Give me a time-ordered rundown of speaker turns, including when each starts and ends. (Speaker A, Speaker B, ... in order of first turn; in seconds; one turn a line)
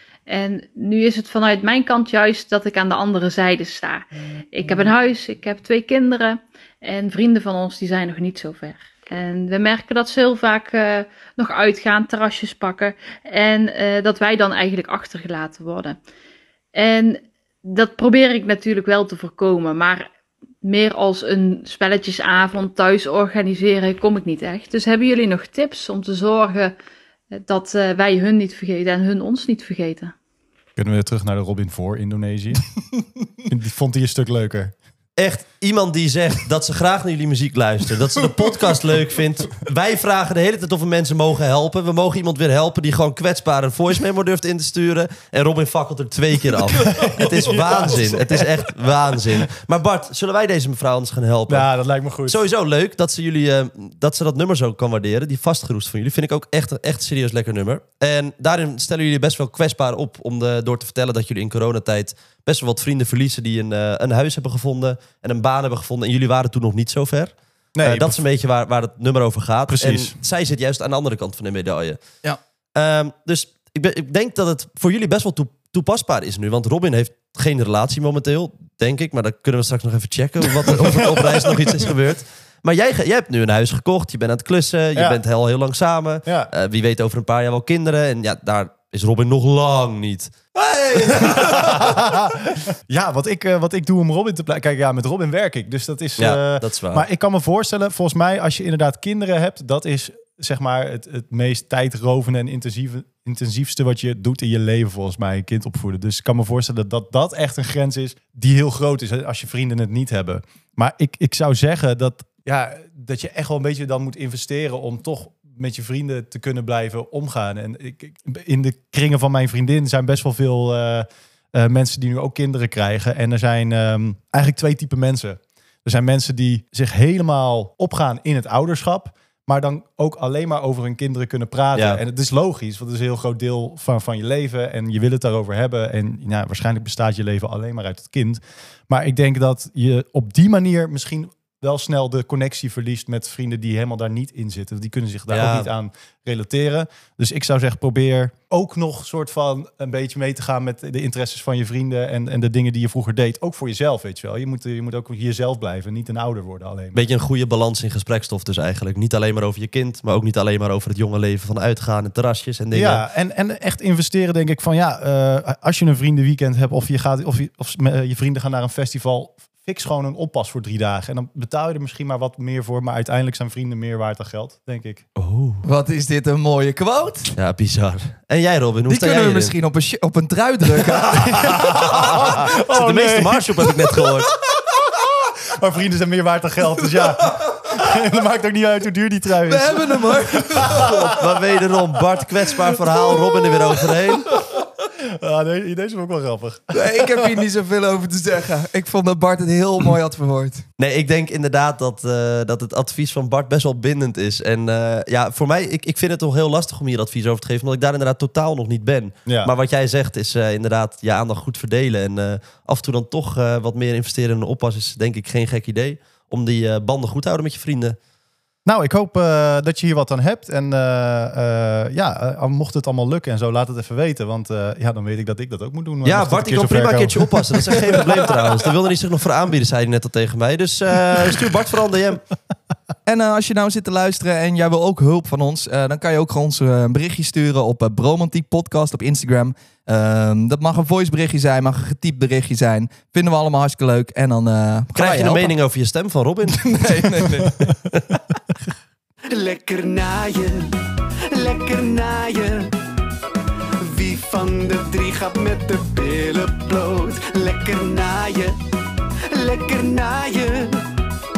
Speaker A: 0.3-16.0
Speaker A: 16.7-20.1
Speaker A: 20.6-26.8
Speaker A: 27.4-30.1
Speaker B: 30.8-32.6
Speaker B: 33.5-34.7
Speaker C: 35.2-51.7
Speaker D: 46.8-47.8
Speaker B: 46.8-49.5
Speaker B: 51.5-52.4
Speaker C: 52.2-72.0
Speaker B: 67.7-68.2
Speaker B: 69.7-70.1
Speaker C: 72.8-92.0
Speaker B: 80.8-81.7
Speaker B: 84.9-85.2
Speaker B: 86.2-86.5
Speaker D: 90.6-91.4
Speaker B: 91.2-157.0
Speaker C: 96.2-97.0
Speaker C: 131.7-132.0
Speaker C: 145.3-145.7
Speaker C: 156.9-163.0
Speaker B: 162.7-175.0
Speaker C: 175.2-175.6
Speaker D: 175.6-177.3
Speaker C: 177.3-179.5
Speaker D: 178.9-182.2
Speaker B: 181.2-184.2
Speaker C: 181.6-184.3
Speaker B: 184.8-191.3
Speaker D: 187.2-187.7
Speaker D: 189.4-191.2
Speaker C: 190.8-194.3
Speaker B: 195.0-197.3
Speaker D: 196.7-200.6
Speaker C: 200.8-217.9
Speaker B: 209.2-209.5
Speaker B: 218.6-228.3
Speaker C: 226.0-232.2
Speaker D: 233.1-245.5
Speaker C: 244.9-247.2
Speaker D: 246.5-247.8
Speaker E: 249.3-250.8
Speaker E: 251.3-252.7
Speaker E: 253.8-258.6
Speaker E: 259.3-260.8